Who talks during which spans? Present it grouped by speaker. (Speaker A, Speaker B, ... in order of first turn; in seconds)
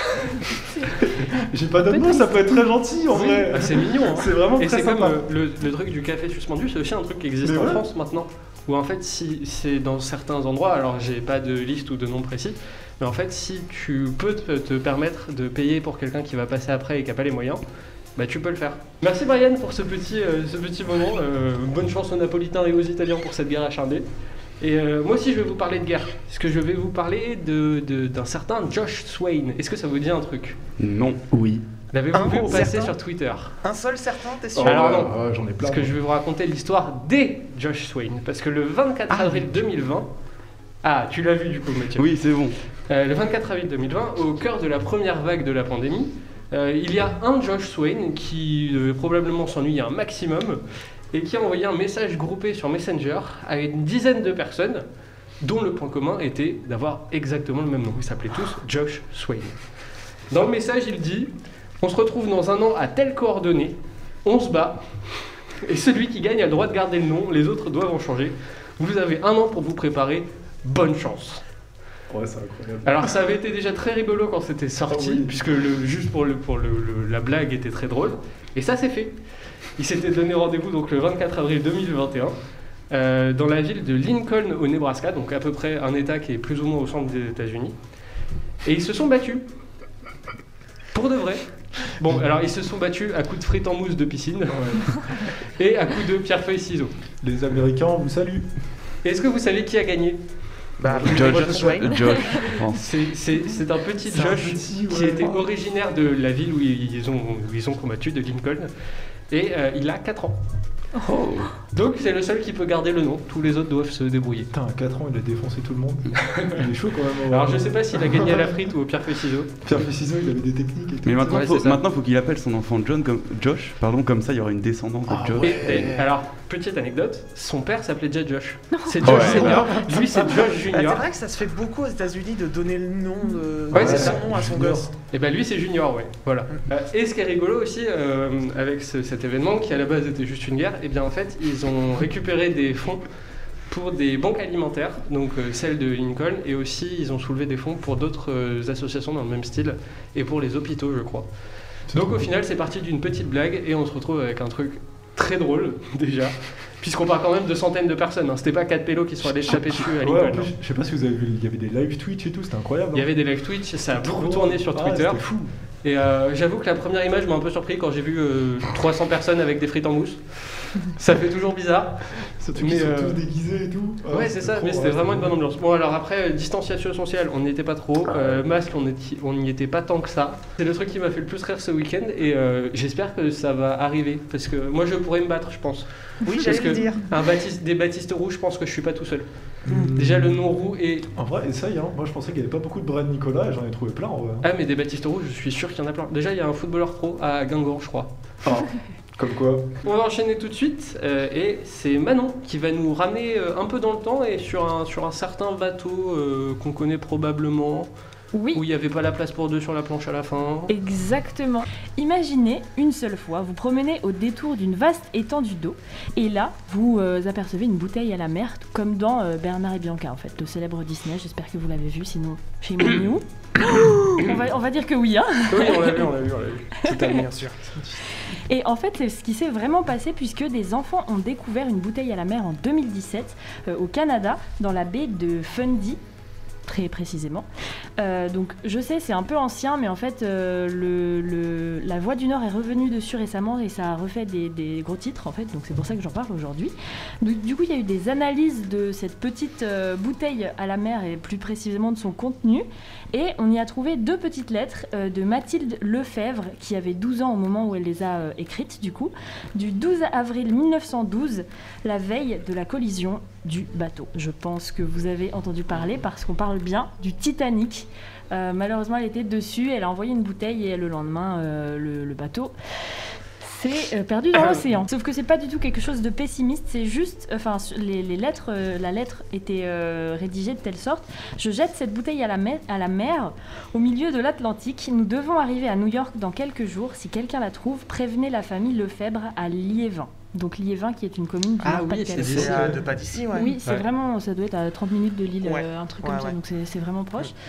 Speaker A: 1.0-5.3, 7.4-7.8, 34.5-35.9, 72.1-73.2, 74.9-75.4, 94.5-94.9, 97.2-98.5, 100.9-101.8, 104.1-105.5, 114.5-118.5, 119.6-121.5, 125.1-125.9, 129.0-130.3, 133.7-134.9, 151.9-152.3, 159.2-163.1, 163.9-165.5, 172.4-175.3, 189.6-190.4, 191.2-194.4, 198.4-199.7, 227.1-227.7, 292.4-292.7
Speaker B: 1.9-2.6, 128.7-129.3, 208.3-208.6, 210.7-226.0, 226.9-227.2, 228.5-236.0, 236.7-237.5, 238.0-272.5, 273.4-292.7, 293.3-297.3
Speaker C: 3.1-17.6, 18.1-24.1, 24.6-30.6, 31.9-33.5, 34.6-40.1, 40.8-42.0, 42.9-50.6, 51.1-54.8, 55.4-59.5, 60.3-61.3, 61.8-64.8, 65.6-71.4, 72.8-79.1, 79.8-82.3, 82.9-87.7, 88.6-89.4, 90.9-96.9, 99.0-100.2, 102.7-108.7, 109.3-110.4, 111.7-114.5, 116.3-116.6, 117.3-119.6, 121.3-121.8, 125.4-131.0, 133.7-134.2, 135.1-143.1, 143.7-151.3, 151.9-160.5, 162.9-165.2, 165.8-173.2, 174.1-191.1, 194.4-198.1, 199.8-207.9, 208.5-210.7, 225.5-227.7, 291.6-292.8
Speaker D: 30.8-31.6, 42.0-42.6, 101.0-102.9, 111.0-111.5, 121.0-126.0, 129.0-129.5
Speaker E: 32.1-32.9, 33.6-35.1, 100.8-102.2, 130.6-134.9, 186.2-187.1, 292.2-293.5, 295.4-296.4